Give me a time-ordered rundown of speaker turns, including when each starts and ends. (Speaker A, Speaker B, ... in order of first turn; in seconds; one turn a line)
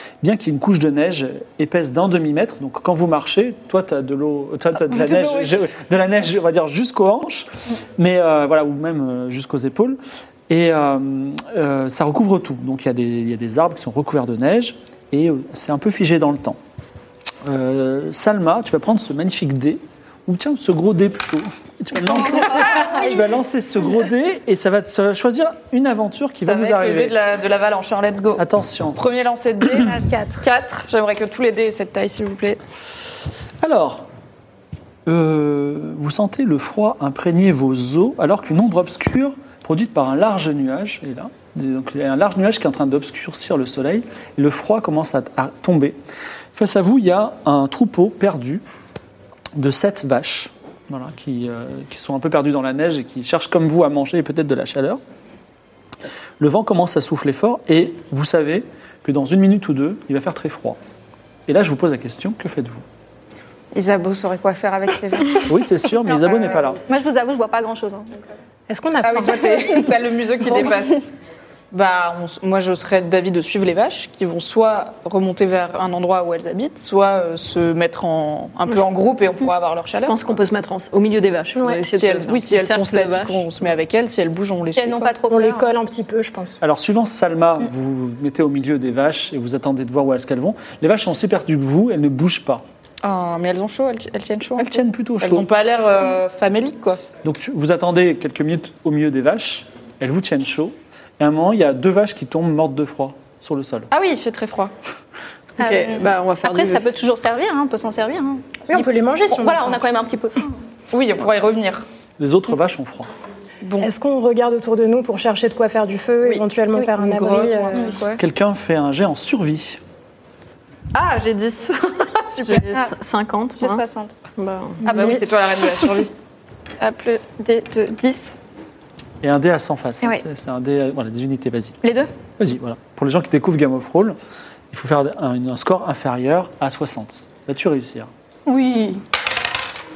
Speaker A: 0.2-16.6
Speaker A: 17.4-27.2
Speaker B: 22.4-23.0
Speaker C: 26.4-28.4
Speaker A: 28.4-29.0
Speaker C: 29.0-32.6
Speaker D: 29.9-30.4
Speaker A: 33.6-34.1
Speaker A: 35.1-46.0
Speaker A: 46.5-48.6
Speaker A: 49.6-55.0
Speaker A: 56.4-60.8
Speaker A: 61.5-62.9
Speaker C: 63.7-65.5
Speaker A: 65.5-66.8
Speaker B: 66.0-68.2
Speaker D: 68.7-69.9
Speaker C: 69.0-71.1
Speaker C: 71.7-80.3
Speaker E: 80.0-83.5
Speaker C: 81.9-85.2
Speaker B: 84.7-85.7
Speaker D: 85.3-86.6
Speaker A: 86.6-92.6
Speaker C: 93.0-97.1
Speaker A: 94.6-95.5
Speaker A: 97.2-103.9
Speaker C: 103.9-104.7
Speaker B: 105.6-110.5
Speaker E: 105.6-107.0
Speaker D: 108.7-109.9
Speaker C: 110.9-111.9
Speaker A: 112.2-113.1
Speaker C: 113.6-113.9
Speaker D: 113.8-117.9
Speaker C: 116.9-118.2
Speaker A: 118.2-119.8
Speaker C: 120.9-122.7
Speaker E: 122.4-123.8
Speaker B: 123.6-124.2
Speaker E: 124.4-124.8
Speaker C: 124.8-126.1
Speaker D: 124.9-125.2
Speaker B: 126.8-128.4
Speaker A: 129.2-131.8
Speaker B: 131.8-132.1
Speaker A: 132.4-134.2
Speaker A: 134.7-138.1
Speaker B: 138.5-139.0